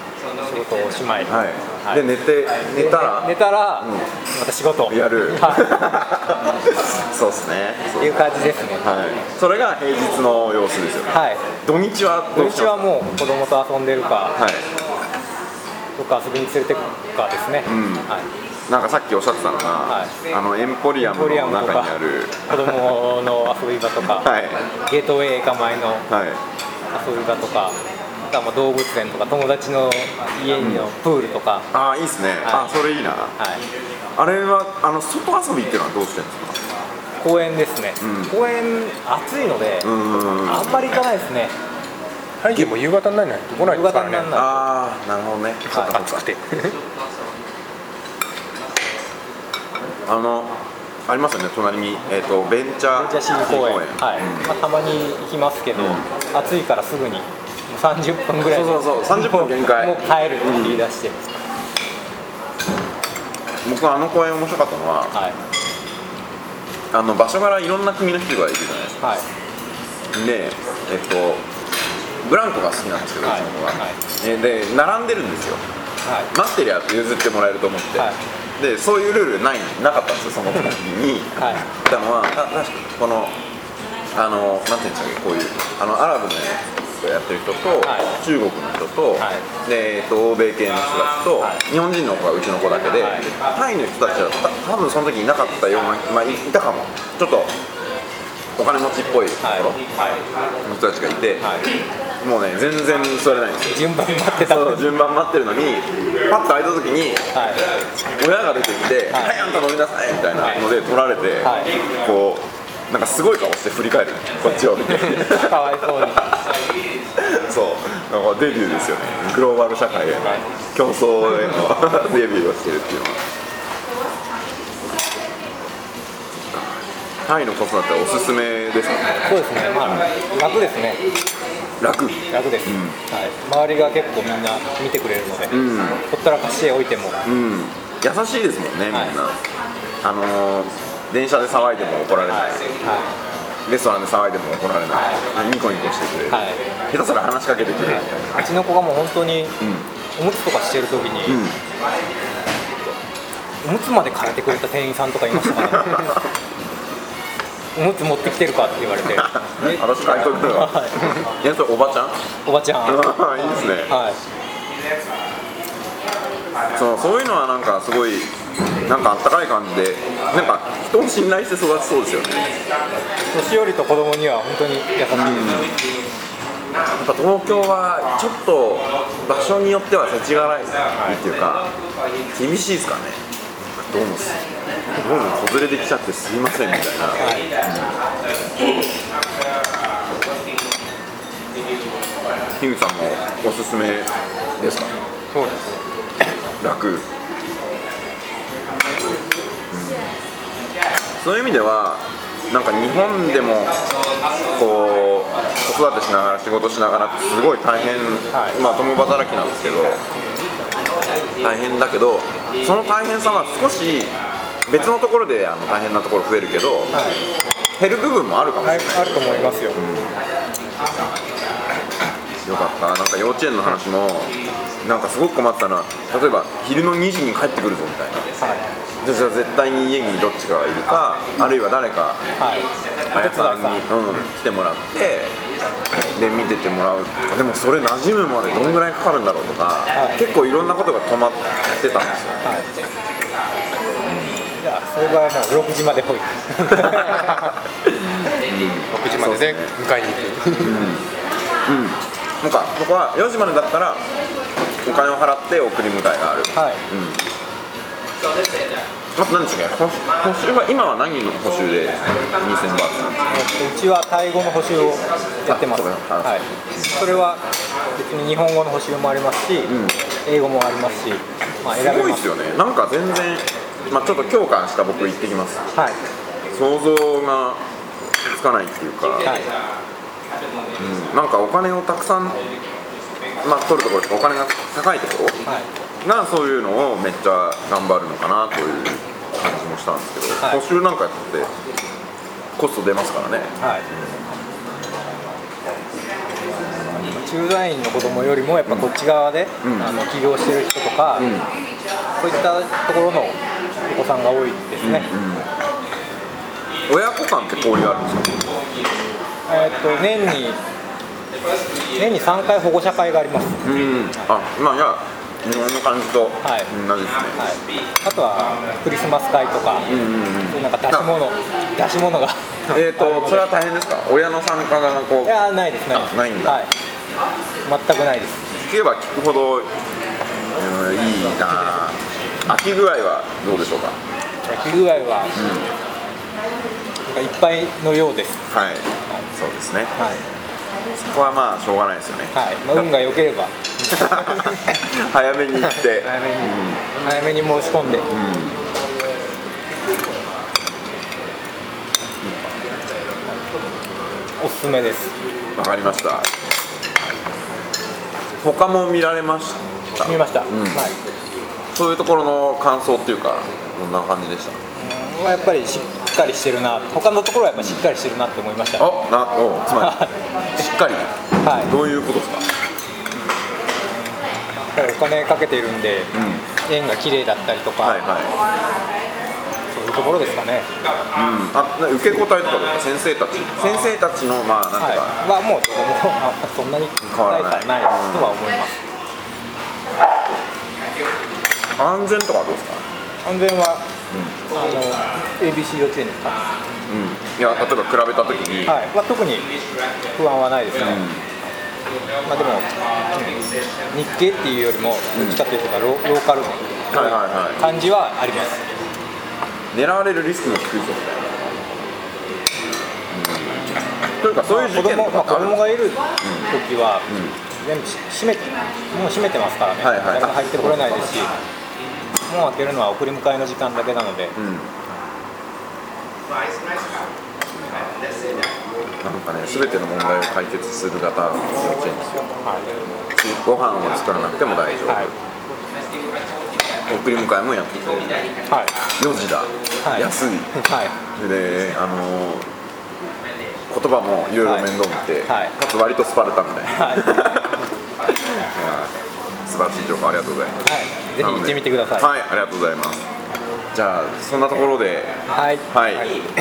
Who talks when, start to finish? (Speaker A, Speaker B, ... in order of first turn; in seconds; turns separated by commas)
Speaker A: 0.4-1.3, Speaker B: 1.3-4.1, Speaker A: 2.7-5.7, Speaker B: 4.9-8.2, Speaker A: 8.0-8.8, Speaker B: 8.8-11.1, Speaker A: 11.1-11.4, Speaker B: 11.6-12.9, Speaker A: 12.3-14.4, Speaker B: 14.4-14.7, Speaker A: 16.0-18.3, Speaker B: 17.6-18.1, Speaker B: 18.7-22.9, Speaker A: 19.9-20.1, Speaker A: 21.0-22.0, Speaker A: 22.5-24.3, Speaker B: 24.1-24.6, Speaker A: 24.9-26.0, Speaker B: 26.1-26.4, Speaker A: 26.9-27.8, Speaker A: 28.3-31.7, Speaker B: 30.6-30.9, Speaker B: 31.7-33.3, Speaker A: 32.4-32.7, Speaker B: 34.2-36.6, Speaker A: 37.2-39.9, Speaker B: 38.0-38.3, Speaker B: 39.8-41.0, Speaker A: 40.5-41.5, Speaker C: 42.4-44.3, Speaker A: 43.5-44.7, Speaker B: 44.3-46.3, Speaker C: 45.7-46.8, Speaker B: 50.0-50.5, Speaker B: 51.1-54.5, Speaker A: 52.9-61.3, Speaker B: 55.7-56.0, Speaker B: 58.4-60.8, Speaker B: 63.6-65.2, Speaker B: 66.9-69.0, Speaker A: 69.0-69.2, Speaker B: 70.1-71.4, Speaker B: 72.2-75.6, Speaker A: 73.2-74.0, Speaker A: 76.0-76.3, Speaker B: 76.3-83.3, Speaker A: 81.4-81.6, Speaker B: 84.1-97.5, Speaker A: 87.8-88.1, Speaker A: 89.2-89.4, Speaker A: 93.0-93.2, Speaker B: 98.6-99.8, Speaker A: 99.4-100.2, Speaker B: 100.6-101.5, Speaker A: 101.4-101.7, Speaker B: 102.2-107.2, Speaker A: 103.7-104.9, Speaker A: 107.3-107.6, Speaker B: 108.1-116.2, Speaker A: 109.1-109.4, Speaker A: 111.4-111.7, Speaker A: 115.1-116.3, Speaker B: 117.2-123.2, Speaker B: 127.2-129.2, Speaker A: 129.2-131.0, Speaker B: 131.8-133.0, Speaker A: 132.3-137.2, Speaker B: 135.5-136.0, Speaker B: 137.2-139.3, Speaker B: 140.0-142.7, Speaker A: 142.3-143.1, Speaker B: 143.7-148.5, Speaker A: 144.9-145.2, Speaker A: 146.3-146.6, Speaker A: 148.3-149.6, Speaker B: 149.6-149.9, Speaker A: 150.2-151.4, Speaker B: 151.3-151.6, Speaker A: 153.6-156.2, Speaker B: 155.4-156.2, Speaker A: 157.7-161.1, Speaker B: 159.1-162.2, Speaker A: 162.4-164.2, Speaker B: 162.8-163.9, Speaker B: 166.7-168.3, Speaker B: 168.8-172.4, Speaker A: 173.3-175.7, Speaker B: 175.1-175.7, Speaker B: 176.9-181.7, Speaker B: 182.3-183.2, Speaker B: 183.7-184.4, Speaker B: 184.9-188.0, Speaker A: 187.2-187.5, Speaker B: 192.6-194.9, Speaker C: 195.3-195.8, Speaker B: 196.6-197.1, Speaker B: 199.7-200.1, Speaker B: 201.2-203.8, Speaker B: 204.5-210.0, Speaker A: 208.3-208.6, Speaker B: 211.4-214.2, Speaker B: 214.7-216.9, Speaker A: 216.9-217.2, Speaker B: 217.8-220.2, Speaker A: 218.6-219.8, Speaker B: 222.4-228.3, Speaker A: 228.4-228.6, Speaker B: 229.0-232.2, Speaker A: 232.4-233.9, Speaker B: 233.1-235.3, Speaker B: 236.1-242.4, Speaker A: 239.9-240.3, Speaker B: 244.1-244.4, Speaker A: 244.6-247.4, Speaker B: 248.4-249.7, Speaker C: 248.9-250.9, Speaker B: 250.6-251.0, Speaker B: 251.7-254.0, Speaker B: 254.8-257.2, Speaker A: 256.5-256.8, Speaker B: 259.1-263.2, Speaker A: 263.3-267.4, Speaker B: 265.4-266.9, Speaker A: 267.9-269.7, Speaker B: 269.6-269.9, Speaker A: 270.2-272.3, Speaker B: 271.8-275.6, Speaker A: 275.7-276.0, Speaker B: 276.5-277.6, Speaker B: 278.2-279.3, Speaker A: 279.2-279.5, Speaker B: 280.8-282.4, Speaker B: 283.4-285.4, Speaker B: 286.0-291.5, Speaker B: 292.6-294.3, Speaker A: 293.6-293.8, Speaker A: 297.0-301.3, Speaker B: 299.6-300.0, Speaker B: 301.2-301.5, Speaker A: 302.2-303.4, Speaker A: 303.9-305.1, Speaker B: 304.8-305.5, Speaker B: 306.9-308.4, Speaker A: 309.5-310.6, Speaker A: 311.9-314.2, Speaker B: 313.6-317.5, Speaker A: 316.4-316.7, Speaker A: 317.4-319.9, Speaker B: 319.9-321.1, Speaker A: 320.5-323.5, Speaker B: 322.7-326.7, Speaker A: 325.2-326.7, Speaker A: 327.6-328.4, Speaker B: 328.5-329.7, Speaker B: 330.5-334.0, Speaker A: 334.5-335.4, Speaker B: 335.3-335.7, Speaker A: 337.1-338.3, Speaker B: 338.5-339.9, Speaker B: 341.0-342.9, Speaker A: 342.3-344.6, Speaker B: 343.9-346.8, Speaker A: 345.7-348.1, Speaker B: 348.1-348.6, Speaker A: 354.4-355.1, Speaker B: 355.6-356.3, Speaker B: 358.4-360.9, Speaker A: 360.0-361.0, Speaker B: 361.7-364.6, Speaker A: 364.8-368.9, Speaker B: 367.5-367.8, Speaker B: 368.8-372.4, Speaker A: 369.8-370.1, Speaker A: 371.4-371.7, Speaker A: 374.7-376.1, Speaker B: 376.1-376.4, Speaker A: 376.6-378.0, Speaker B: 377.8-378.3, Speaker A: 379.7-380.7, Speaker B: 381.1-385.2, Speaker A: 384.8-388.8, Speaker B: 387.0-388.4, Speaker B: 391.8-392.8, Speaker A: 393.2-393.8, Speaker B: 394.1-394.4, Speaker A: 394.5-396.5, Speaker B: 396.9-398.8, Speaker A: 398.7-399.5, Speaker A: 400.1-401.1, Speaker B: 400.8-401.2, Speaker A: 402.2-403.4, Speaker A: 403.9-408.6, Speaker B: 405.1-405.4, Speaker B: 406.9-407.6, Speaker B: 409.7-411.6, Speaker B: 413.1-413.6, Speaker B: 414.2-415.6, Speaker A: 414.4-417.1, Speaker B: 416.2-416.5, Speaker B: 417.1-417.3, Speaker A: 417.6-421.3, Speaker B: 419.8-421.1, Speaker A: 422.3-424.3, Speaker B: 424.4-424.7, Speaker B: 427.5-427.9, Speaker B: 429.0-432.3, Speaker C: 432.4-432.7, Speaker B: 433.1-435.1, Speaker B: 436.9-438.3, Speaker A: 438.5-438.7, Speaker B: 439.0-440.5, Speaker A: 439.8-440.1, Speaker A: 440.6-440.9, Speaker B: 441.1-442.5, Speaker B: 443.7-447.6, Speaker A: 444.4-444.7, Speaker A: 445.3-445.5, Speaker A: 446.8-447.1, Speaker B: 448.3-448.9, Speaker B: 449.4-450.6, Speaker A: 450.6-452.1, Speaker B: 451.2-453.0, Speaker B: 453.7-455.2, Speaker A: 455.3-455.7, Speaker B: 455.7-456.1